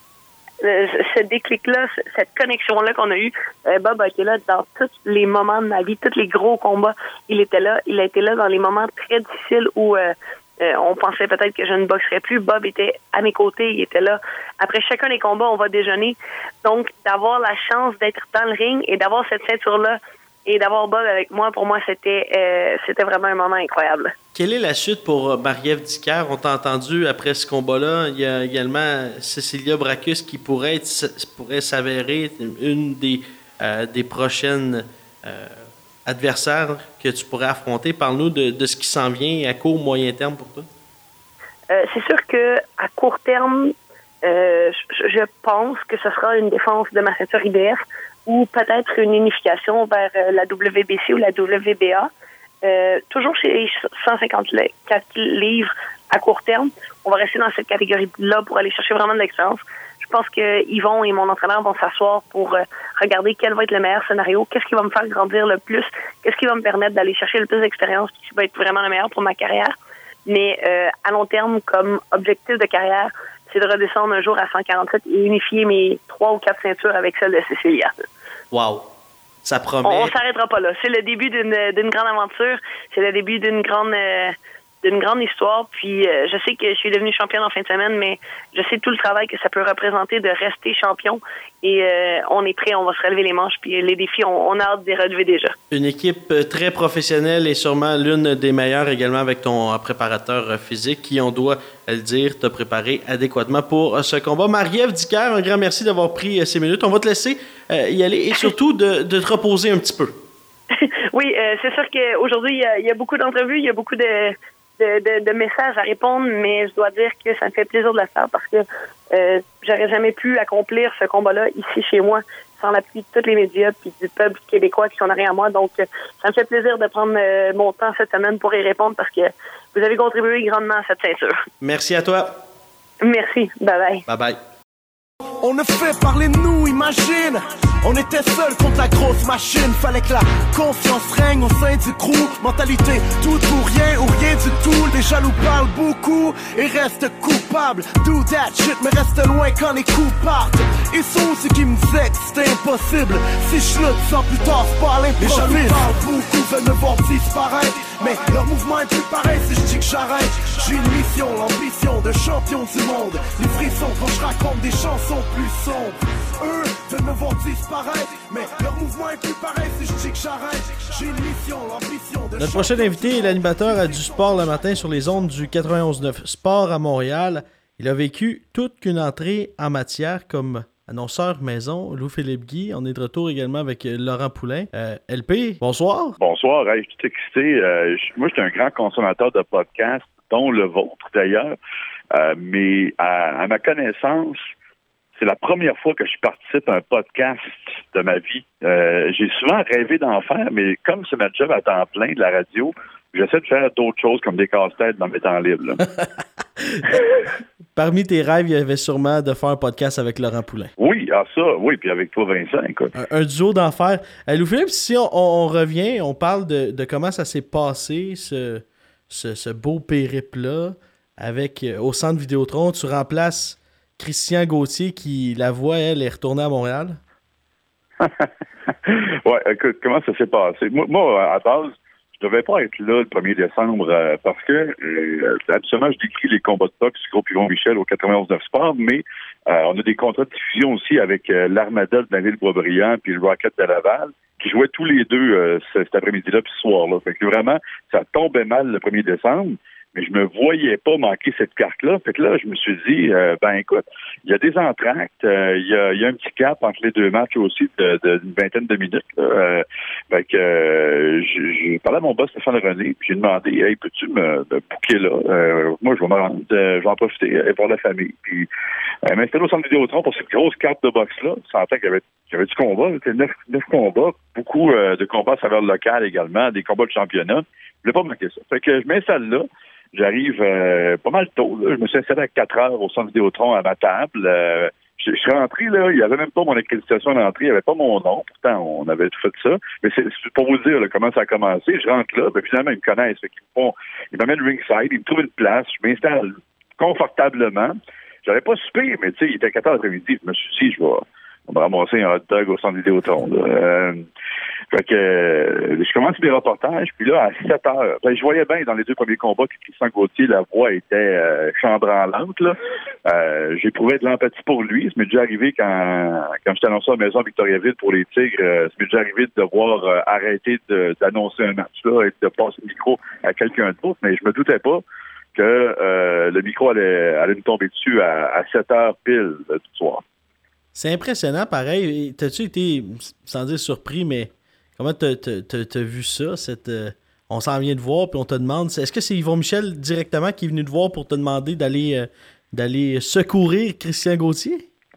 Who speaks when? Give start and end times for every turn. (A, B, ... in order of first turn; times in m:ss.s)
0:00.6-0:24.1 A
0:24.3-0:40.7 B
0:41.7-0:52.1 A
0:52.6-1:09.7 A
1:10.3-1:17.9 A
1:18.5-1:18.9 B
1:19.4-1:20.1 B
1:19.8-1:35.6 A
1:35.7-1:50.1 B
1:50.7-2:11.4 A
2:11.6-2:12.4 B
2:13.0-2:14.1 A
2:14.1-2:14.4 B
2:15.4-2:54.2 C
2:52.4-3:06.2 B
3:06.2-3:11.6 D
3:12.1-3:14.5 D
3:15.2-3:25.8 D
3:26.6-3:27.0 B
3:27.8-3:30.7 B
3:30.8-3:32.9 D
3:33.0-3:47.0 B
3:48.0-3:48.3 D
3:48.8-4:28.5 D
4:29.1-5:04.0 D
5:04.7-5:24.8 D
5:25.3-5:30.0 D
5:30.8-5:44.7 B